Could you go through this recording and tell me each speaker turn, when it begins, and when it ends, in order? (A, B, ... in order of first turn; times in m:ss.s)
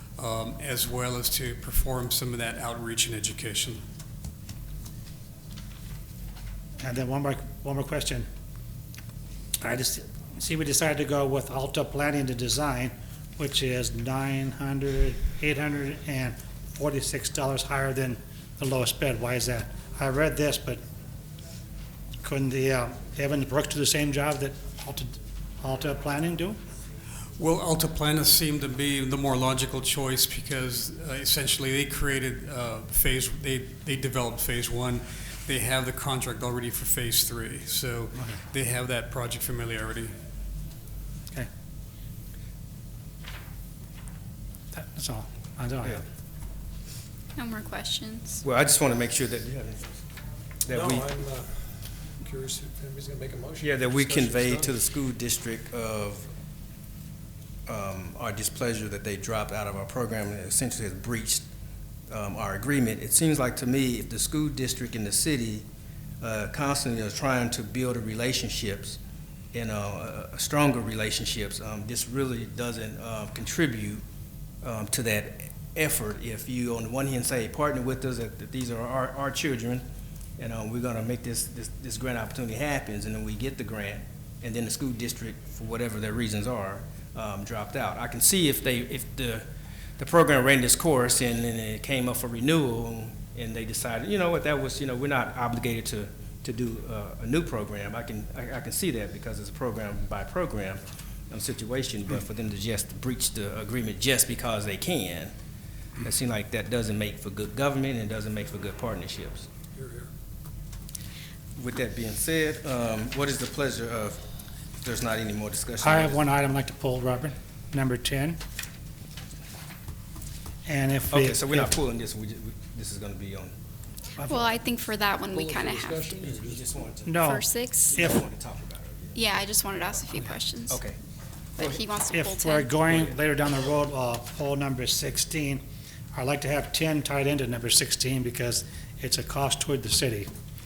0:00.2-0:03.8 A
0:06.8-0:08.2 B
0:09.6-0:20.8 B
0:22.2-0:26.6 B
0:27.4-0:40.1 A
0:38.1-0:38.4 B
0:44.7-0:46.0 B
0:47.4-0:48.4 C
0:48.4-0:50.0 D
0:50.6-0:51.1 D
0:50.7-0:54.8 E
0:53.6-0:56.3 D
0:57.7-1:01.4 D
1:02.1-1:05.6 D
1:06.2-1:09.0 D
1:09.5-1:14.0 D
1:14.6-1:19.8 D
1:20.4-1:29.4 D
1:30.0-1:45.3 D
1:46.0-1:49.5 D
1:49.7-1:50.1 E
1:51.6-1:54.2 D
1:54.8-1:56.2 D
1:55.8-1:58.4 B
2:00.6-2:01.8 B
2:01.1-2:03.5 D
2:04.2-2:04.6 B
2:04.3-2:06.2 C
2:05.3-2:06.7 E
2:06.2-2:07.3 D
2:07.0-2:08.2 B
2:07.3-2:07.9 C
2:07.9-2:10.1 D
2:09.1-2:10.8 C
2:10.7-2:11.0 D
2:11.6-2:12.7 C
2:11.6-2:11.8 D
2:12.1-2:15.6 B
2:12.9-2:13.2 D
2:16.1-2:20.3 B